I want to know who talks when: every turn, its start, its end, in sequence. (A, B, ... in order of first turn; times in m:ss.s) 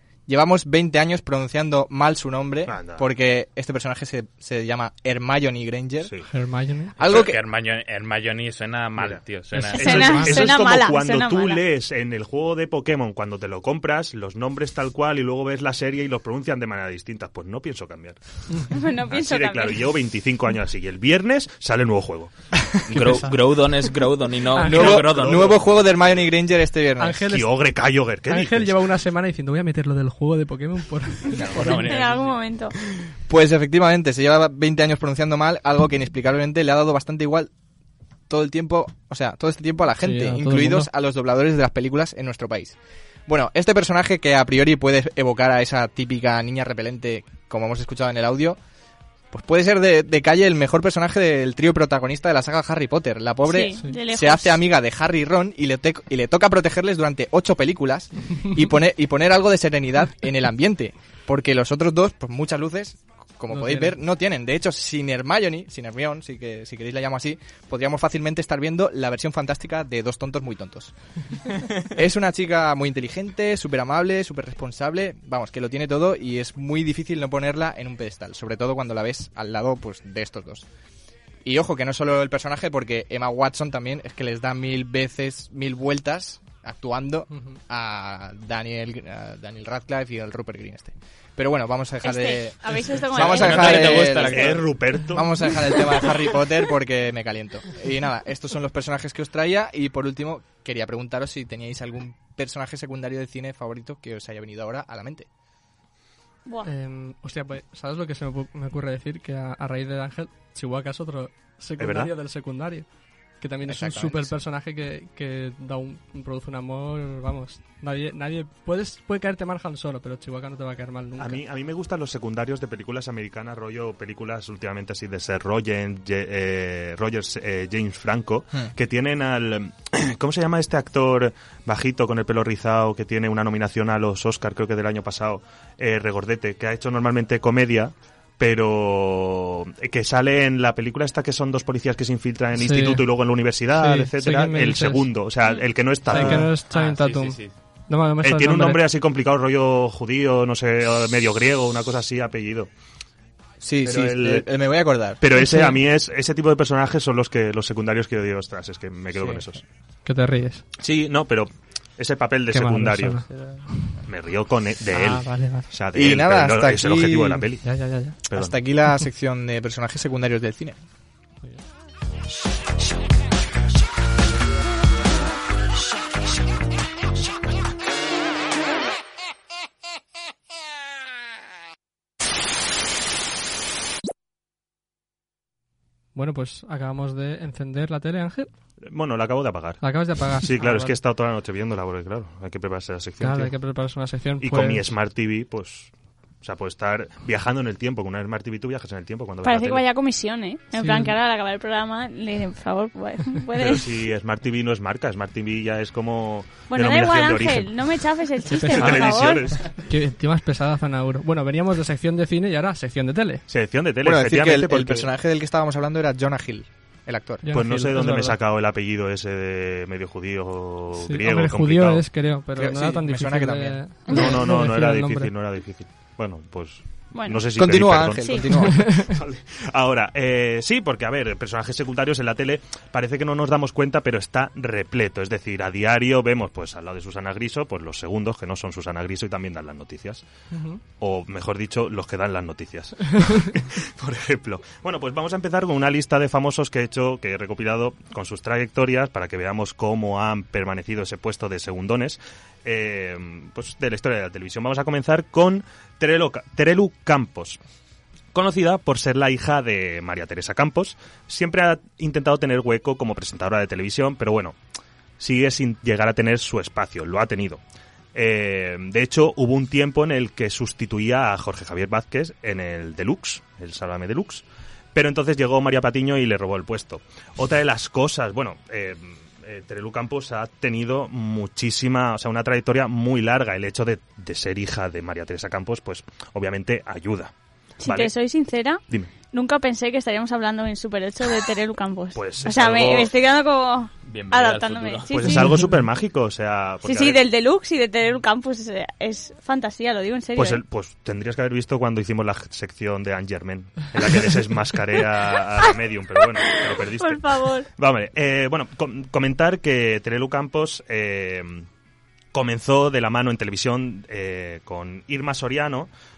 0:00.3-0:06.1 A
0:02.7-0:03.0 B
0:06.3-0:06.9 C
0:07.0-0:07.4 A
0:07.0-0:09.9 D
0:09.5-0:10.5 C
0:09.8-0:18.4 B
0:09.8-0:11.6 E
0:18.7-0:19.8 E
0:19.1-0:22.3 B
0:22.9-0:25.6 D
0:22.9-0:23.3 C
0:24.5-0:25.0 C
0:24.6-0:27.2 A
0:24.8-0:25.5 B
0:27.0-0:27.5 C
0:27.2-0:28.7 B
0:28.3-0:31.9 C
0:31.4-0:32.4 D
0:31.8-0:32.7 E
0:33.3-0:37.5 A
0:38.3-0:42.8 A
0:40.0-0:40.9 C
0:43.3-0:48.6 A
0:49.3-1:10.9 A
0:53.4-0:54.6 E
1:03.5-1:03.9 C
1:11.9-1:20.6 A
1:21.4-1:34.6 A
1:27.3-1:27.6 C
1:32.0-1:34.0 E
1:33.2-1:34.7 D
1:34.0-1:35.4 B
1:35.1-1:45.3 A
1:46.6-1:52.8 C
1:51.8-1:52.1 B
1:53.4-2:01.4 C
1:53.7-1:54.3 A
2:01.2-2:26.5 B
2:22.6-2:23.0 C
2:23.8-2:25.0 C
2:26.1-2:28.8 C
2:26.1-2:27.5 D
2:28.2-2:32.7 B
2:33.6-2:35.2 A
2:33.8-2:34.4 B
2:35.2-2:39.6 B
2:35.4-2:35.8 C
2:39.1-2:39.4 A
2:40.0-2:40.6 C
2:40.8-2:43.2 B
2:42.5-2:44.0 C
2:44.0-2:48.6 B
2:44.9-2:45.6 C
2:45.9-2:47.5 A
2:47.6-2:48.2 C
2:48.3-2:50.8 A
3:06.1-3:08.5 C
3:08.8-3:13.5 B
3:09.8-3:10.9 C
3:13.2-3:14.9 C
3:14.4-3:19.8 B
3:19.4-3:23.8 E
3:20.7-3:21.1 C
3:23.6-3:27.7 B
3:26.7-3:29.5 E
3:28.5-3:33.4 C
3:28.6-3:29.6 B
3:33.5-3:35.1 B
3:34.0-3:37.4 A
3:37.4-3:38.4 C
3:37.5-3:42.0 B
3:41.0-3:45.3 C
3:42.5-3:43.8 A
3:44.1-3:48.5 B
3:47.1-3:47.5 E
3:47.5-3:49.0 A
3:48.2-3:48.5 E
3:48.7-3:49.1 C
3:49.1-4:00.2 B
4:00.5-4:00.8 C
4:01.0-4:17.6 B
4:18.3-4:24.6 B
4:25.2-4:27.6 B
4:28.1-4:47.3 B
4:47.8-4:55.4 E
4:47.8-4:48.1 B
4:52.1-4:53.1 B
4:54.1-4:55.4 D
4:55.1-4:57.2 B
4:55.3-4:55.7 C
4:56.8-5:00.6 E
5:00.4-5:11.7 B
5:06.4-5:07.7 E
5:12.3-5:15.9 B